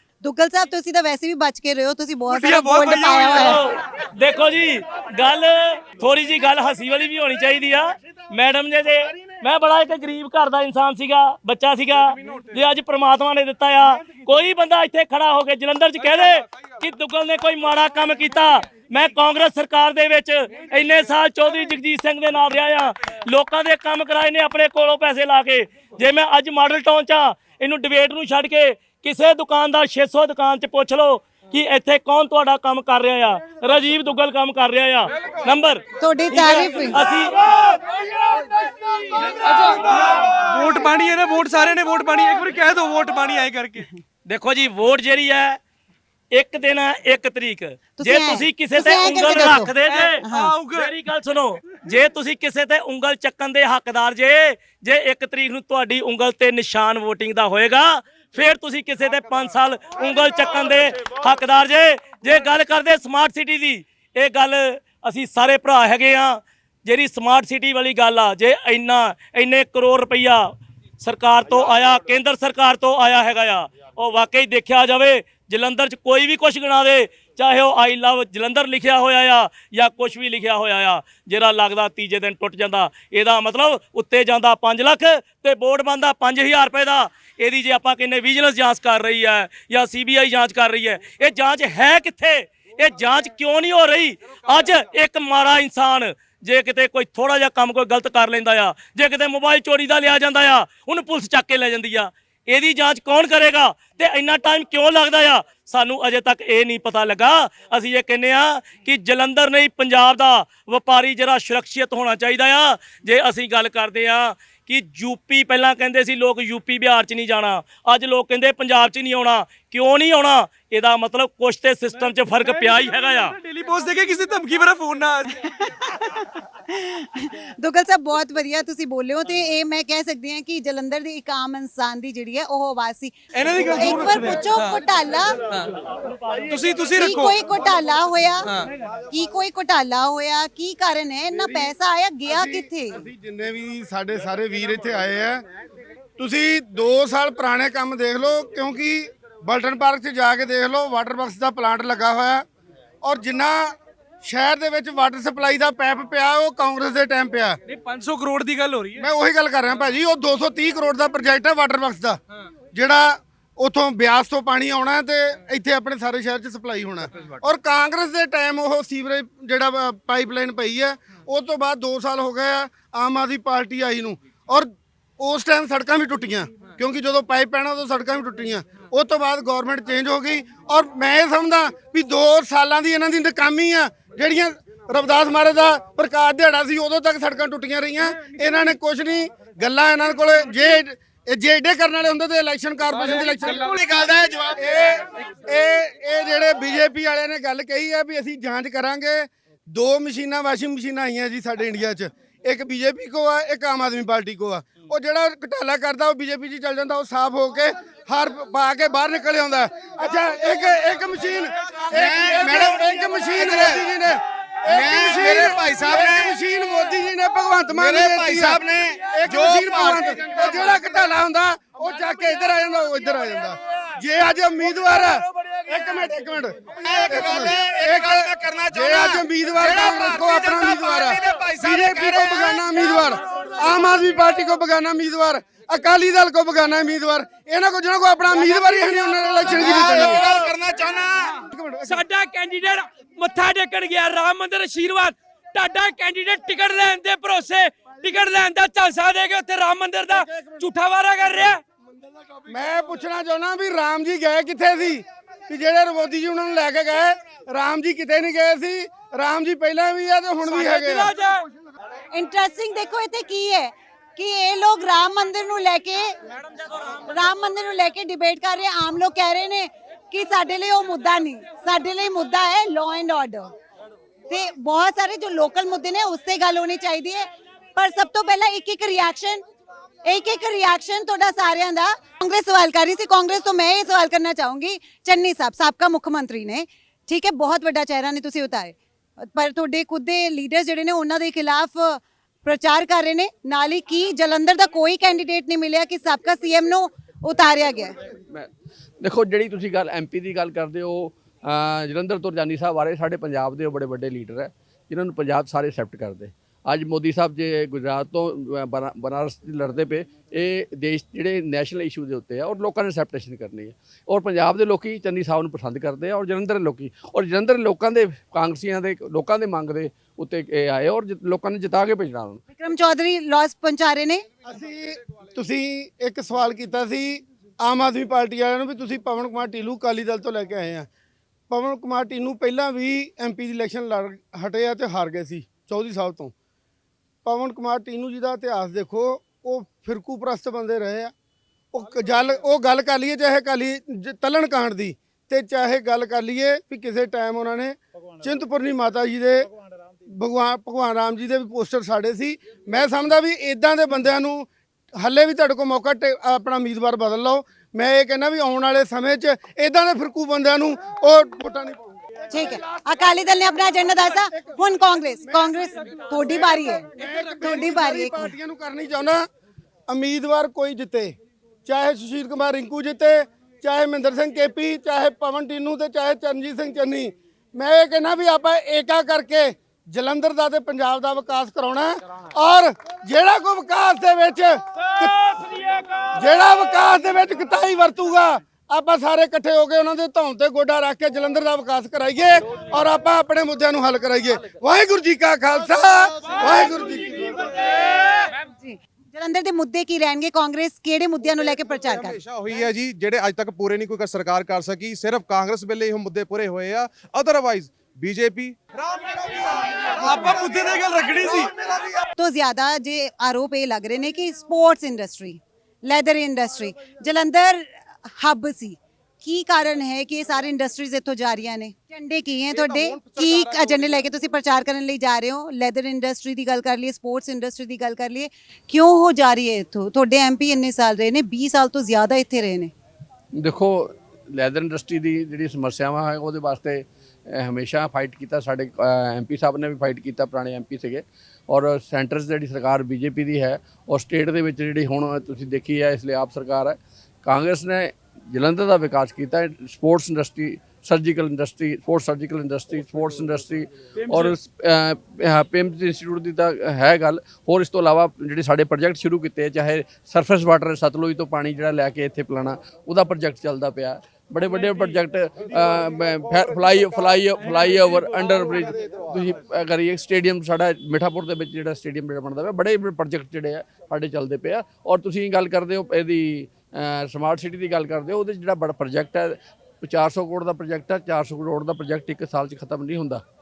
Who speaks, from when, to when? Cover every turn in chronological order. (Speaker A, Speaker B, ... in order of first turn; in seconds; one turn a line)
Speaker A: 0.2-3.6
Speaker B: 2.3-3.6
Speaker C: 3.4-37.8
Speaker A: 36.0-37.0
Speaker B: 39.3-43.9
Speaker C: 44.2-45.6
Speaker C: 46.3-123.3
Speaker A: 48.0-50.5
Speaker B: 49.8-50.9
Speaker B: 122.4-125.3
Speaker A: 125.3-133.1
Speaker B: 133.3-134.8
Speaker A: 133.7-135.4
Speaker B: 135.4-135.7
Speaker B: 136.5-137.3
Speaker A: 136.9-138.5
Speaker B: 138.4-138.7
Speaker A: 139.1-143.1
Speaker D: 142.3-145.4
Speaker D: 146.2-152.4
Speaker D: 153.0-157.6
Speaker B: 157.7-159.1
Speaker D: 159.0-162.2
Speaker D: 162.7-193.7
Speaker E: 193.4-194.5
Speaker D: 194.6-240.5
Speaker E: 212.0-213.8
Speaker E: 214.7-216.3
Speaker E: 217.8-220.0
Speaker E: 226.8-232.6
Speaker E: 239.8-241.3
Speaker D: 241.4-242.0
Speaker F: 241.9-251.6
Speaker D: 250.3-250.6
Speaker D: 252.5-261.1
Speaker B: 260.5-261.4
Speaker A: 262.1-266.1
Speaker A: 266.9-273.5
Speaker A: 274.3-279.4
Speaker A: 280.1-298.0
Speaker G: 299.0-322.4
Speaker A: 322.5-324.2
Speaker D: 324.4-330.9
Speaker D: 331.5-336.3
Speaker D: 337.2-341.1
Speaker D: 341.7-349.5
Speaker D: 350.1-362.6
Speaker A: 362.3-368.3
Speaker D: 365.2-369.2
Speaker D: 369.9-371.1
Speaker D: 371.7-385.6
Speaker D: 386.1-397.8
Speaker A: 398.3-402.2
Speaker H: 401.9-409.8
Speaker B: 410.0-411.6
Speaker A: 412.2-432.7
Speaker G: 433.3-483.2